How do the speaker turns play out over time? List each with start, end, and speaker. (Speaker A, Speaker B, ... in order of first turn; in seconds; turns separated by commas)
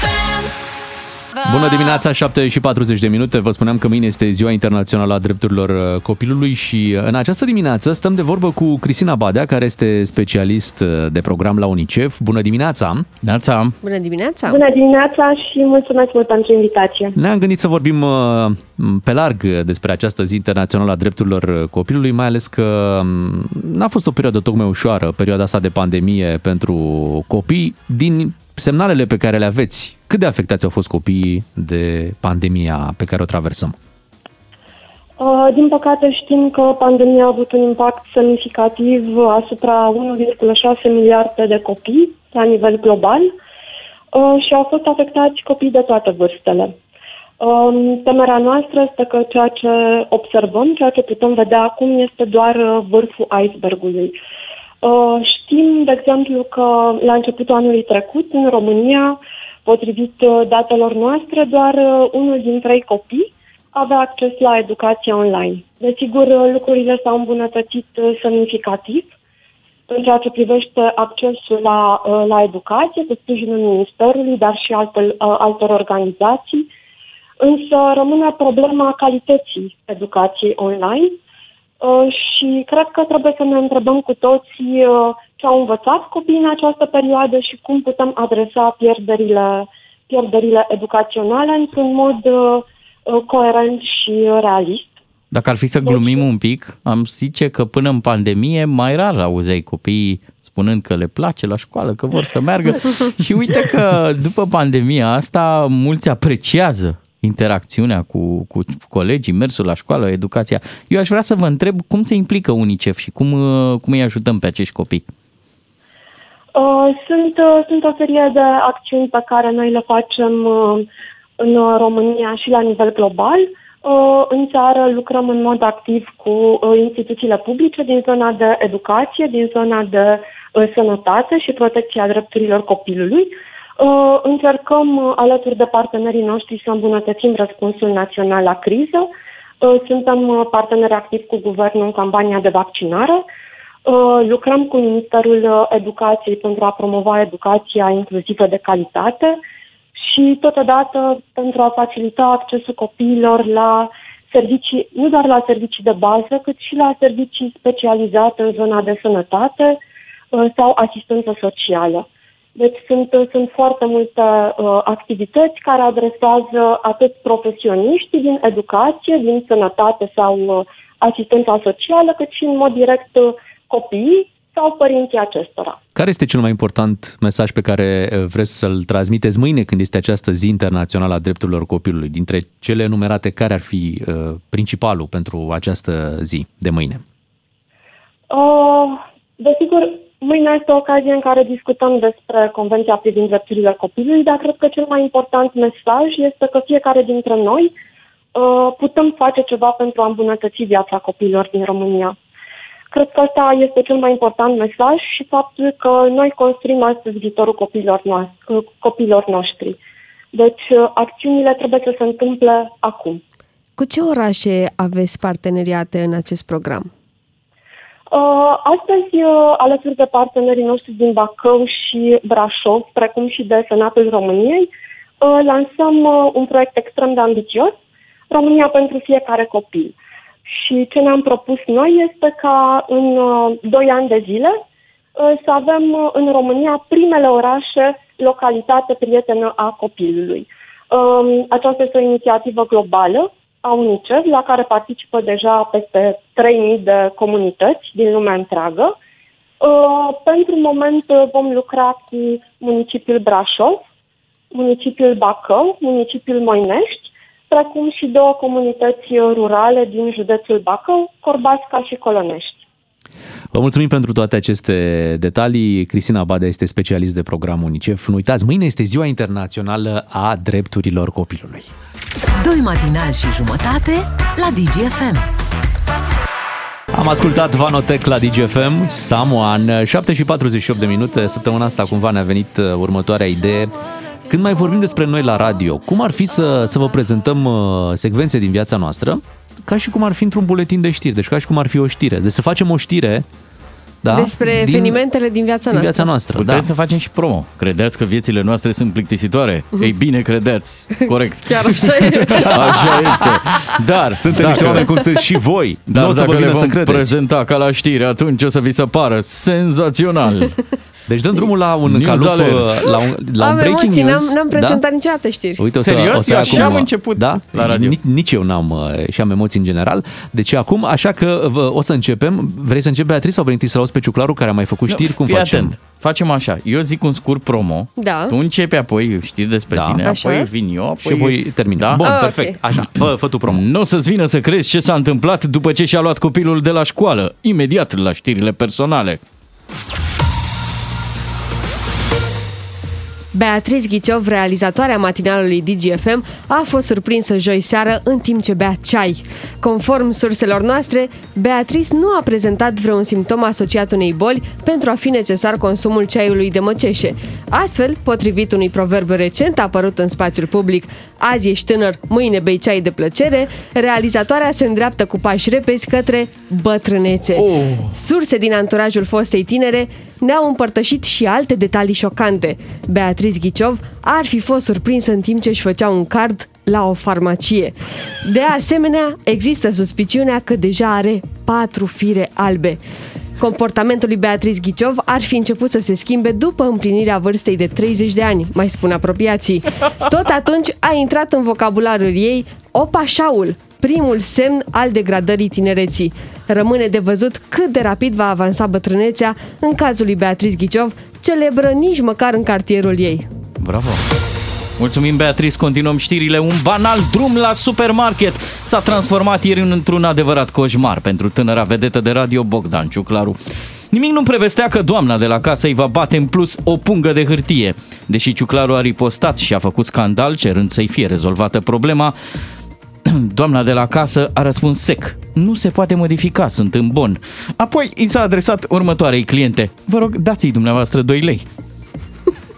Speaker A: 1.4-13.1, Speaker B: 13.2-13.7, Speaker C: 13.8-14.6, Speaker D: 14.4-17.1, Speaker A: 17.1-33.8, Speaker D: 35.2-43.3, Speaker D: 44.1-46.7, Speaker D: 47.4-54.1, Speaker D: 54.8-69.1, Speaker D: 69.9-76.7, Speaker D: 77.4-81.2, Speaker D: 81.8-94.9, Speaker B: 95.3-115.0, Speaker D: 95.8-96.2, Speaker D: 116.5-120.8, Speaker D: 121.4-139.1, Speaker D: 139.6-143.2, Speaker D: 143.8-149.4, Speaker D: 149.9-159.8, Speaker D: 160.3-175.8, Speaker A: 175.9-187.0, Speaker D: 188.3-197.7, Speaker D: 198.3-202.1, Speaker D: 202.9-209.8, Speaker D: 210.3-213.2, Speaker C: 213.8-216.9, Speaker D: 218.1-224.7, Speaker D: 225.2-227.8, Speaker D: 228.3-229.9, Speaker D: 230.5-234.6, Speaker D: 235.2-248.9, Speaker D: 249.6-253.8, Speaker D: 254.5-262.6, Speaker A: 263.5-271.7, Speaker E: 272.4-275.2, Speaker A: 276.9-283.7, Speaker A: 284.2-293.2, Speaker A: 294.0-295.0, Speaker C: 294.1-296.1, Speaker A: 295.7-296.7, Speaker B: 296.3-304.9, Speaker C: 301.4-303.0, Speaker A: 302.3-303.4, Speaker A: 304.0-307.1, Speaker B: 305.9-310.6, Speaker A: 311.1-314.8, Speaker B: 311.9-312.8, Speaker C: 313.4-315.6, Speaker A: 315.6-325.8, Speaker B: 315.8-318.0, Speaker B: 324.9-332.1, Speaker C: 328.0-328.3, Speaker A: 329.7-330.0, Speaker C: 330.0-330.5, Speaker A: 331.0-333.6, Speaker C: 332.0-332.6, Speaker B: 333.5-339.2, Speaker C: 343.3-382.8, Speaker B: 367.4-367.9, Speaker C: 383.4-403.3, Speaker B: 403.6-404.0, Speaker B: 404.8-413.4, Speaker B: 413.9-422.1, Speaker B: 423.0-431.4